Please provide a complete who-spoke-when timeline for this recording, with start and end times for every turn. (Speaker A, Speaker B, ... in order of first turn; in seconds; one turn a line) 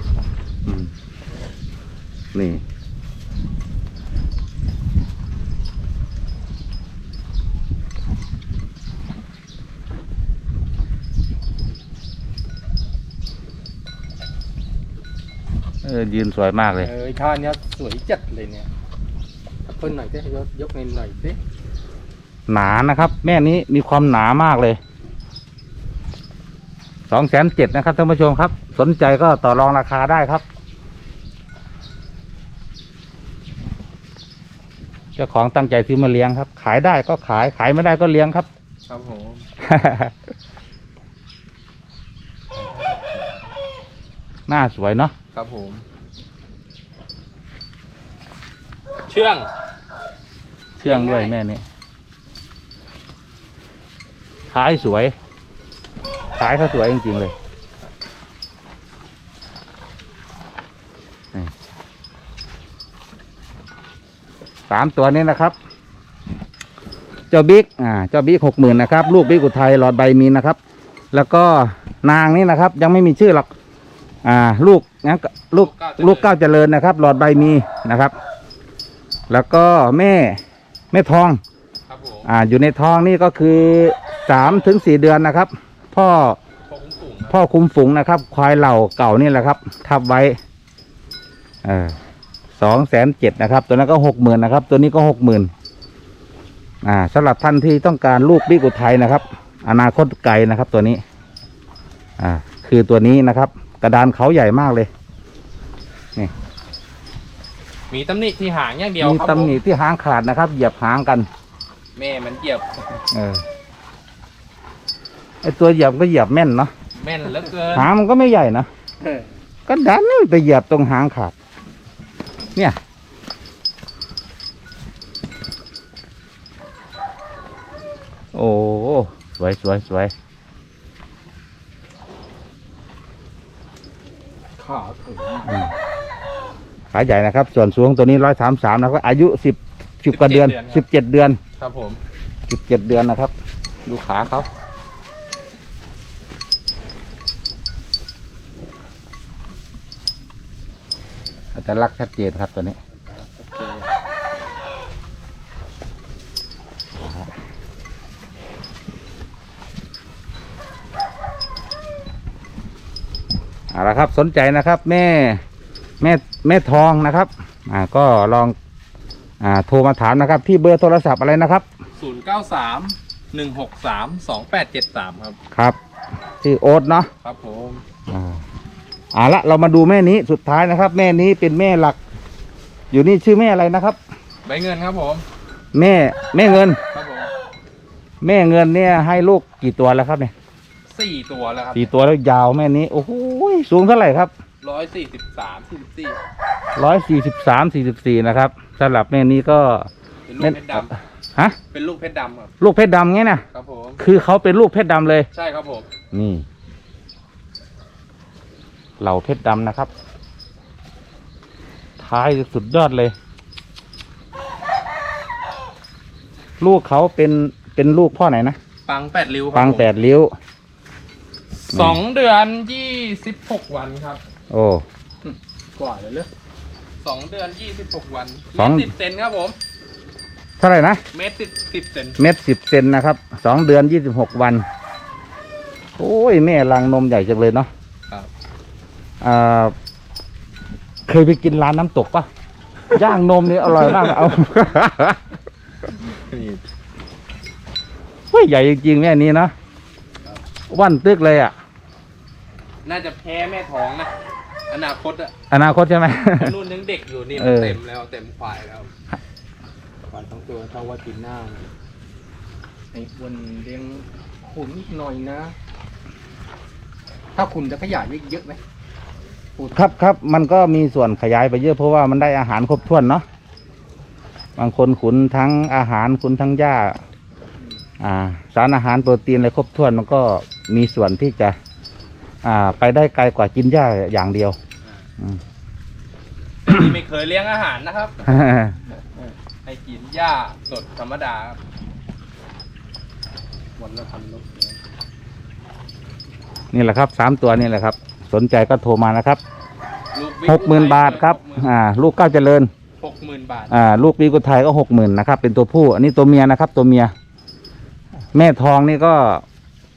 Speaker A: 0.7-0.9
Speaker A: 2.3-2.6
Speaker A: 15.8-16.9
Speaker B: 16.8-18.7
Speaker B: 19.7-21.4
Speaker A: 22.5-24.8
Speaker A: 27.1-30.4
Speaker A: 35.2-38.5
Speaker C: 38.9-39.5
Speaker A: 39.6-40.1
Speaker C: 42.5-43.4
Speaker A: 44.5-45.1
Speaker C: 45.3-45.8
Speaker C: 49.1-49.5
Speaker C: 50.8-51.4
Speaker A: 50.8-51.6
Speaker A: 54.5-55.1
Speaker A: 56.4-57.3
Speaker A: 64.7-65.5
Speaker A: 67.3-70.6
Speaker A: 71.1-73.5
Speaker A: 74.2-78.1
Speaker C: 75.6-76.3
Speaker A: 79.3-80.4
Speaker A: 80.9-81.4
Speaker C: 81.9-82.3
Speaker A: 82.2-86.4
Speaker C: 86.7-87.4
Speaker A: 87.3-90.4
Speaker A: 91.6-92.0
Speaker A: 92.6-95.5
Speaker A: 96.8-101.0
Speaker A: 102.2-104.9
Speaker C: 107.9-109.6
Speaker A: 109.0-111.3
Speaker C: 112.0-112.7
Speaker A: 113.1-113.4
Speaker A: 115.4-116.7
Speaker C: 117.0-117.9
Speaker A: 117.7-118.7
Speaker A: 119.7-121.3
Speaker A: 128.3-130.1
Speaker B: 134.6-135.7
Speaker A: 136.9-141.4
Speaker C: 140.1-140.8
Speaker C: 141.6-142.0
Speaker A: 142.5-143.3
Speaker A: 143.9-144.5
Speaker A: 151.6-152.8
Speaker B: 153.4-153.9
Speaker A: 157.0-157.3
Speaker A: 163.7-165.4
Speaker A: 166.0-168.6
Speaker A: 169.4-171.7
Speaker C: 172.0-175.4
Speaker A: 175.5-175.8
Speaker A: 176.4-177.1
Speaker C: 177.2-177.8
Speaker A: 178.1-178.4
Speaker A: 179.1-182.0
Speaker A: 182.9-184.0
Speaker C: 184.4-185.2
Speaker A: 185.7-186.8
Speaker C: 186.9-187.3
Speaker A: 188.2-190.3
Speaker C: 190.9-191.9
Speaker A: 191.8-194.3
Speaker C: 194.6-196.2
Speaker A: 196.8-201.6
Speaker C: 200.3-200.9
Speaker C: 201.7-202.5
Speaker A: 202.6-203.4
Speaker C: 203.5-204.0
Speaker A: 204.0-205.3
Speaker C: 205.3-205.9
Speaker A: 206.1-206.4
Speaker A: 209.0-209.9
Speaker A: 212.0-213.1
Speaker A: 216.6-218.6
Speaker C: 218.9-219.9
Speaker A: 219.5-220.3
Speaker C: 221.6-224.2
Speaker A: 221.7-222.0
Speaker A: 224.5-224.8
Speaker B: 225.2-226.3
Speaker C: 227.0-229.6
Speaker A: 228.6-228.9
Speaker A: 230.6-231.0
Speaker C: 231.1-232.2
Speaker A: 232.2-234.7
Speaker A: 236.0-237.7
Speaker A: 239.2-239.7
Speaker A: 241.1-242.3
Speaker A: 242.9-245.2
Speaker C: 243.6-244.4
Speaker C: 245.9-246.6
Speaker A: 248.3-249.5
Speaker A: 250.7-251.5
Speaker C: 252.8-254.1
Speaker C: 254.7-255.3
Speaker A: 255.5-256.6
Speaker C: 256.4-258.9
Speaker A: 257.4-257.8
Speaker B: 260.1-261.6
Speaker B: 262.9-265.5
Speaker B: 267.4-268.6
Speaker B: 269.6-270.0
Speaker A: 269.7-273.2
Speaker A: 274.6-277.0
Speaker A: 278.0-281.6
Speaker A: 282.4-284.6
Speaker C: 286.6-288.4
Speaker A: 288.2-288.8
Speaker B: 289.1-289.3
Speaker C: 289.6-291.6
Speaker B: 293.8-294.8
Speaker A: 296.7-299.4
Speaker C: 300.1-301.7
Speaker A: 300.4-302.7
Speaker C: 303.0-303.8
Speaker A: 303.7-307.1
Speaker A: 308.3-309.4